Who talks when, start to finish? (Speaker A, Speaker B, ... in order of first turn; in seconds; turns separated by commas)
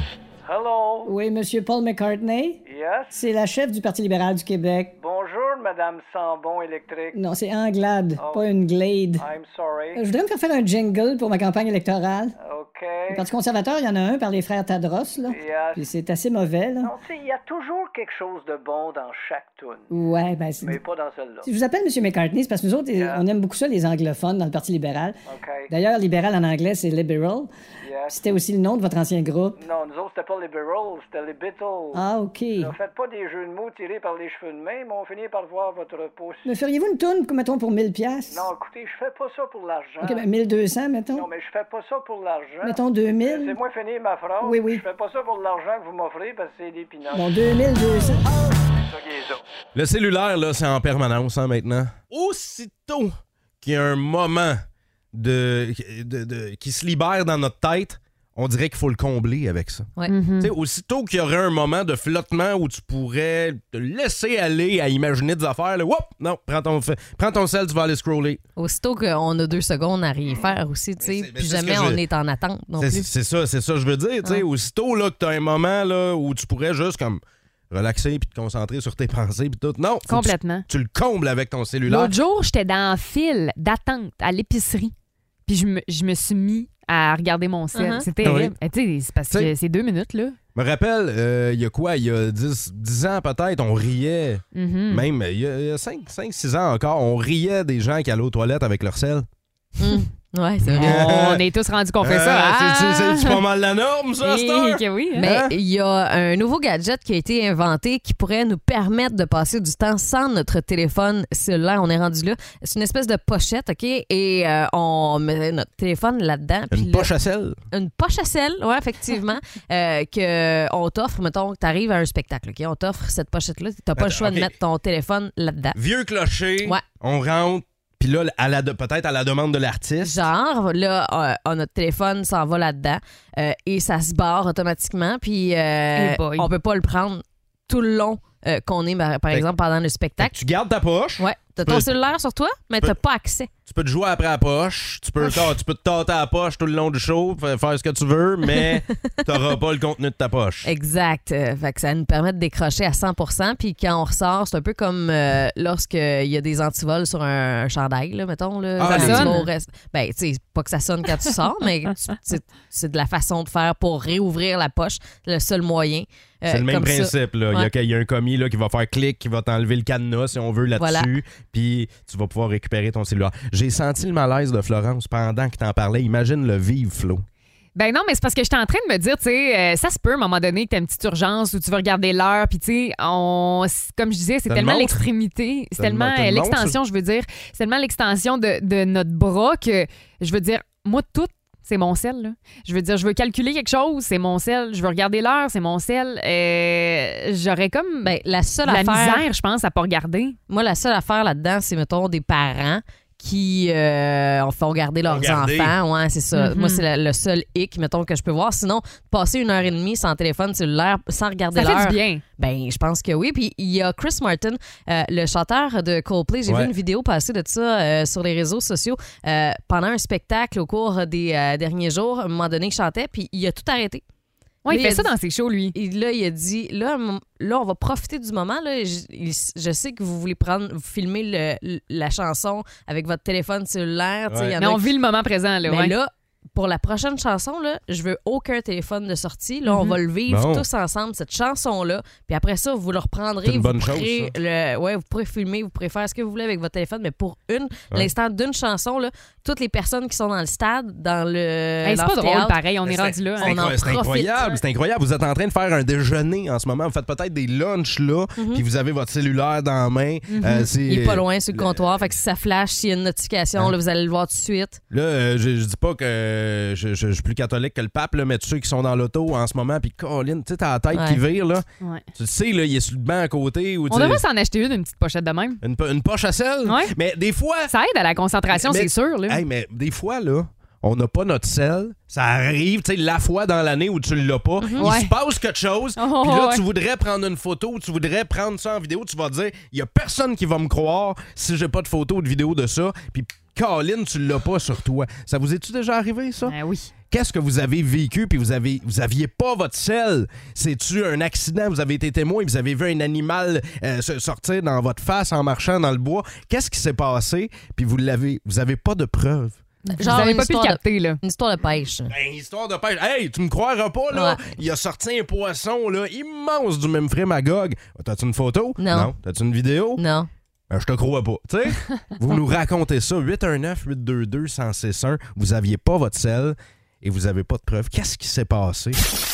Speaker A: 0.4-1.1, Speaker B: 1.1-2.6, Speaker A: 2.6-3.1, Speaker B: 3.1-5.0, Speaker A: 5.0-7.2, Speaker B: 7.1-9.2, Speaker A: 8.2-8.5, Speaker A: 9.2-10.0, Speaker B: 9.9-12.3, Speaker A: 12.4-13.2, Speaker B: 13.1-16.9, Speaker A: 15.3-15.9, Speaker A: 16.8-19.9, Speaker B: 19.9-20.8, Speaker A: 20.6-21.5, Speaker B: 21.4-27.5, Speaker A: 22.9-23.2, Speaker A: 25.3-25.7, Speaker A: 27.8-28.2, Speaker B: 28.1-29.6, Speaker A: 29.6-32.0, Speaker B: 31.9-32.7, Speaker A: 32.6-36.5, Speaker B: 36.4-38.5, Speaker A: 38.3-40.3, Speaker B: 40.0-41.3, Speaker A: 41.1-47.3, Speaker B: 42.6-43.5, Speaker B: 44.4-44.8, Speaker B: 47.1-48.3, Speaker A: 48.8-49.4, Speaker C: 49.7-54.6, Speaker C: 55.1-68.4, Speaker D: 60.1-60.5, Speaker E: 68.6-73.1, Speaker C: 71.0-72.0, Speaker C: 72.8-82.2, Speaker D: 80.1-80.7, Speaker D: 81.9-84.9, Speaker D: 85.5-90.4, Speaker E: 87.7-88.1, Speaker C: 88.2-88.5, Speaker C: 90.5-99.3, Speaker D: 94.5-95.0, Speaker E: 99.8-101.0, Speaker C: 100.7-101.4, Speaker D: 100.8-103.4, Speaker C: 102.0-105.5, Speaker D: 104.2-105.2, Speaker E: 105.2-117.1, Speaker C: 116.7-117.6, Speaker E: 117.7-125.8, Speaker C: 123.9-124.5, Speaker C: 125.8-130.2, Speaker E: 130.0-140.3, Speaker D: 135.9-136.5, Speaker C: 140.2-141.9, Speaker E: 141.2-143.5, Speaker C: 143.7-150.7, Speaker E: 150.6-167.7, Speaker C: 158.8-159.4, Speaker D: 158.9-159.5, Speaker C: 166.5-177.2, Speaker E: 170.8-171.1, Speaker D: 177.8-198.1, Speaker C: 184.5-185.0, Speaker C: 185.8-186.8, Speaker E: 198.0-199.2, Speaker D: 198.6-200.4, Speaker E: 200.5-224.0, Speaker C: 205.1-205.8, Speaker D: 206.3-206.8, Speaker D: 211.5-212.2, Speaker C: 216.5-216.7, Speaker D: 224.6-225.8, Speaker E: 224.7-225.1, Speaker E: 225.7-234.9, Speaker C: 234.3-234.6, Speaker D: 234.6-235.9, Speaker E: 235.7-252.6, Speaker D: 239.7-240.0, Speaker C: 240.3-240.6, Speaker C: 243.4-244.3, Speaker D: 251.8-253.6, Speaker C: 252.8-262.1, Speaker E: 253.4-254.5, Speaker E: 258.4-258.6, Speaker D: 260.3-260.7, Speaker E: 260.8-264.8, Speaker C: 264.9-274.2, Speaker E: 270.9-271.2, Speaker D: 273.9-275.6, Speaker C: 275.6-277.7, Speaker D: 276.6-276.9, Speaker D: 277.7-279.4, Speaker C: 278.5-296.6, Speaker E: 284.6-284.9, Speaker D: 284.8-285.1, Speaker D: 286.0-286.6, Speaker D: 296.4-296.9, Speaker C: 297.1-309.6, Speaker D: 309.9-311.2, Speaker E: 309.9-312.1, Speaker C: 312.1-320.0, Speaker E: 314.1-314.4, Speaker E: 318.8-319.1, Speaker E: 320.0-320.3, Speaker C: 320.7-329.0